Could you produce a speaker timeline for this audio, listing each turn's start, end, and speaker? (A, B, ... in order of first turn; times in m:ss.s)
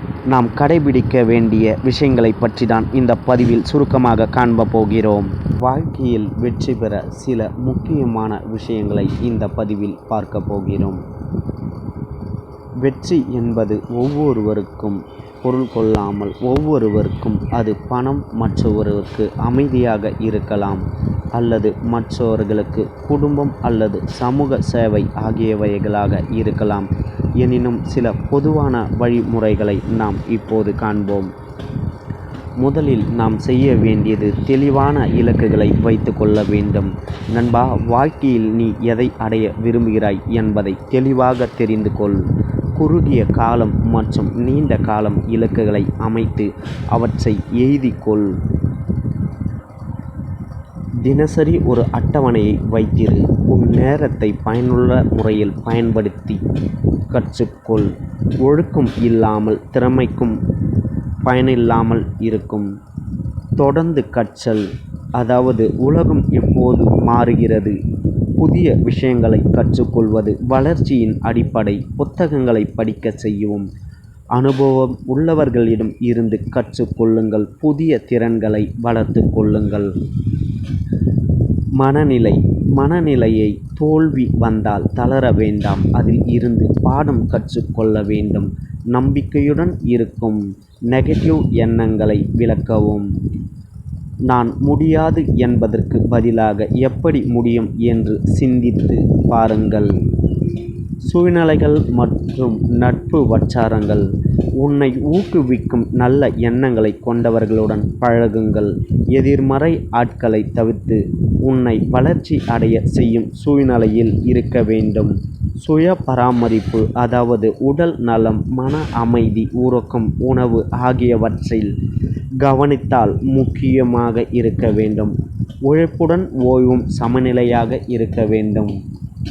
0:00.3-0:11.0 A
0:12.8-0:31.3 A
0:32.6-0:42.2 A
0:42.8-0:48.4 A
0:51.0-0:56.4 A
0:57.1-1:00.4 A
1:01.2-1:02.7 A
1:03.6-1:07.8 A
1:08.4-1:13.7 A
1:14.4-1:19.9 A
1:21.8-1:33.1 A
1:34.3-1:39.9 A
1:41.0-2:01.7 A
2:02.4-2:08.8 A